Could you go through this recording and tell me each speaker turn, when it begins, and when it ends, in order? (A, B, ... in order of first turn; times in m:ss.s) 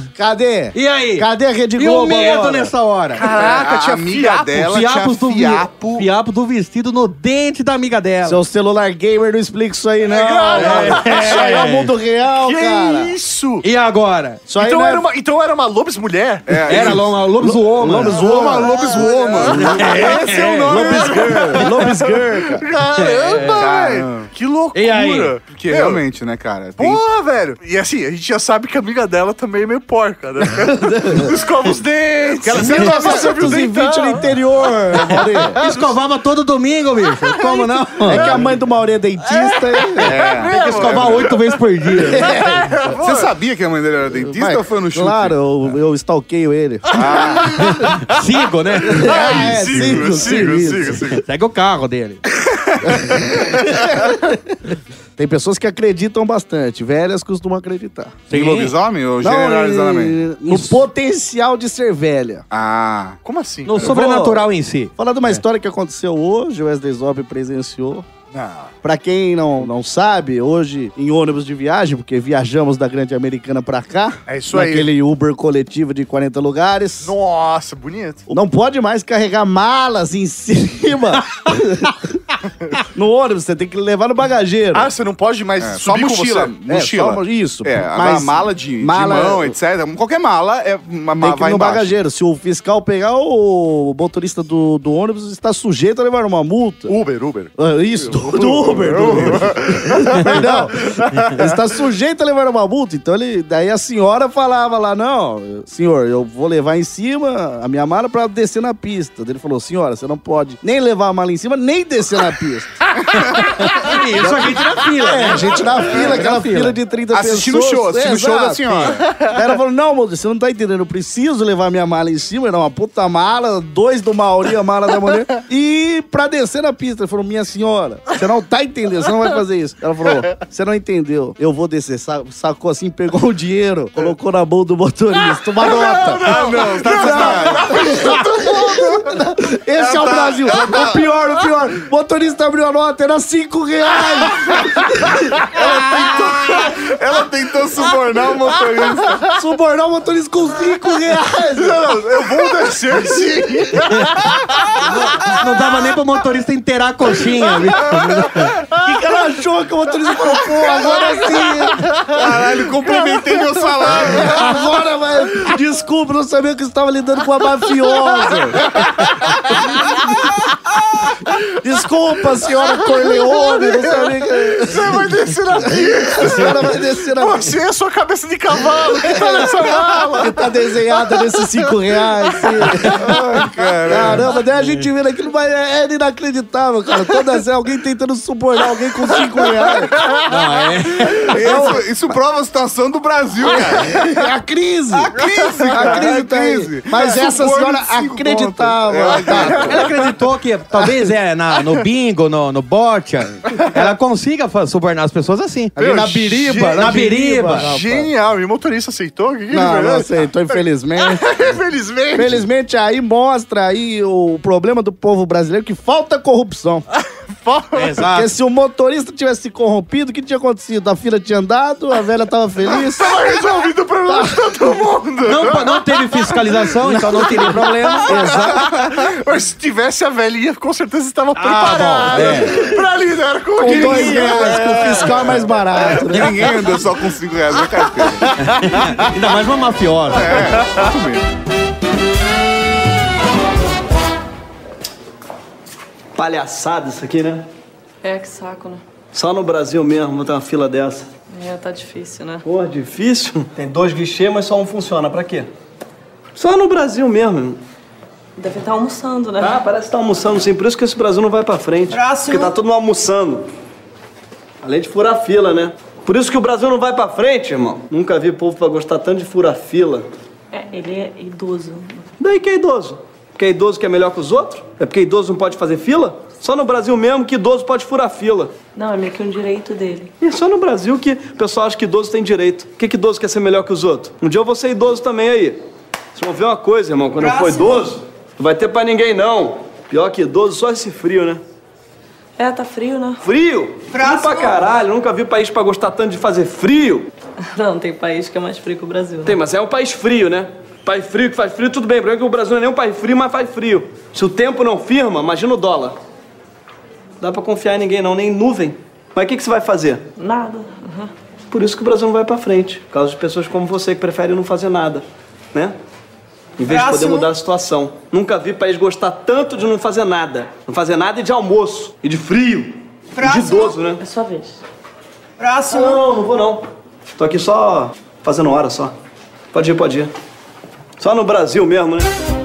0:00.2-0:02.7 A
0:00.7-0:03.2 B
0:03.2-0:04.6 C
0:03.2-0:06.1 D
0:04.6-0:08.4 B
0:08.2-0:13.1 A
0:10.0-0:11.7 C
0:10.6-0:11.9 B
0:12.3-0:13.6 C
0:13.6-0:14.4 B
0:14.5-0:15.1 A
0:14.6-0:17.0 C
0:16.5-0:17.2 D
0:16.7-0:18.2 B
0:17.4-0:22.7 A
0:18.1-0:21.6 D
0:18.2-0:26.0 C
0:19.6-0:20.8 B
0:23.0-0:23.6 B
0:23.5-0:24.3 D
0:24.7-0:25.3 B
0:25.5-0:27.0 D
0:26.8-0:34.3 C
0:30.8-0:31.3 A
0:32.4-0:33.6 D
0:32.5-0:35.6 A
0:34.9-0:35.9 C
0:35.6-0:38.3 B
0:38.0-0:40.2 A
0:38.1-0:38.4 C
0:39.4-0:41.4 C
0:40.0-0:41.1 D
0:40.5-0:42.3 B
0:42.1-0:42.8 A
0:42.3-0:43.3 C
0:43.0-0:45.4 D
0:44.2-0:47.5 A
0:46.9-0:47.8 D
0:47.1-0:47.4 C
0:47.6-0:50.3 B
0:48.9-0:51.0 A
0:48.9-0:51.2 C
0:50.9-0:52.2 B
0:52.8-0:54.5 A
0:55.2-0:58.2 A
0:58.3-0:58.7 B
0:58.3-1:00.2 D
0:59.2-1:02.4 A
1:02.5-1:03.2 D
1:03.2-1:03.9 C
1:03.7-1:05.4 B
1:03.8-1:04.4 A
1:05.0-1:08.0 A
1:08.3-1:08.7 C
1:08.8-1:17.1 A
1:14.3-1:14.9 C
1:17.0-1:18.3 C
1:18.3-1:22.2 A
1:22.9-1:24.9 A
1:24.7-1:26.5 C
1:25.6-1:31.9 D
1:26.7-1:29.6 A
1:31.2-1:36.9 A
1:36.9-1:41.3 C
1:37.6-2:25.1 A
1:53.2-1:56.8 B
1:57.1-1:59.2 D
2:15.6-2:19.1 C
2:16.2-2:18.1 D
2:19.8-2:21.1 D
2:25.5-2:26.7 C
2:25.5-2:29.3 D
2:29.3-2:32.0 A
2:31.5-2:34.7 C
2:34.8-2:38.5 B
2:38.0-2:38.9 C
2:38.7-2:41.9 A
2:40.6-2:41.4 C
2:42.1-2:44.6 D
2:42.9-2:43.9 C
2:44.0-2:48.9 A
2:51.6-2:57.5 A
2:53.1-3:02.6 C
2:58.9-3:03.2 A
3:02.9-3:04.2 D
3:03.8-3:09.9 A
3:04.6-3:04.8 B
3:10.3-3:11.6 B
3:11.1-3:14.2 D
3:11.2-3:11.8 A
3:13.6-3:20.0 A
3:14.9-3:19.8 D
3:19.6-3:25.8 B
3:25.8-3:28.1 A
3:25.8-3:32.4 C
3:26.7-3:27.7 B
3:29.5-3:31.3 A
3:32.1-3:36.8 A
3:37.1-3:38.1 C
3:37.7-3:38.3 B
3:38.1-3:43.2 A
3:42.7-3:55.4 C
3:44.1-3:44.7 A
3:45.2-3:48.2 B
3:46.8-3:48.8 A
3:51.4-3:52.6 B
3:52.1-3:52.8 A
3:53.6-3:56.6 A
3:53.6-3:58.4 D
3:57.7-3:58.3 C
3:58.4-4:00.5 B
4:00.1-4:01.3 D
4:06.2-4:07.5 E
4:08.0-4:08.8 F
4:09.1-4:11.1 E
4:11.3-4:12.4 F
4:12.4-4:15.5 E
4:16.4-4:17.6 E
4:18.4-4:19.6 F
4:19.4-4:23.5 E
4:21.9-4:22.4 F
4:24.6-4:30.1 E
4:30.5-4:32.0 F
4:32.2-4:38.5 E
4:38.7-4:40.1 F
4:40.2-4:45.6 E
4:46.1-4:51.4 E
4:47.2-4:47.8 F
4:52.4-4:53.2 F
4:53.2-4:57.1 E
4:53.9-4:54.4 F
4:57.4-4:59.4 F
4:59.2-5:06.0 E
5:07.2-5:10.0 E
5:10.2-5:11.1 F
5:11.5-5:15.8 E
5:16.6-5:24.0 E
5:16.7-5:17.1 F
5:23.2-5:24.6 F
5:25.4-5:26.6 E
5:27.2-5:28.9 E
5:29.5-5:30.1 E
5:31.0-5:32.1 E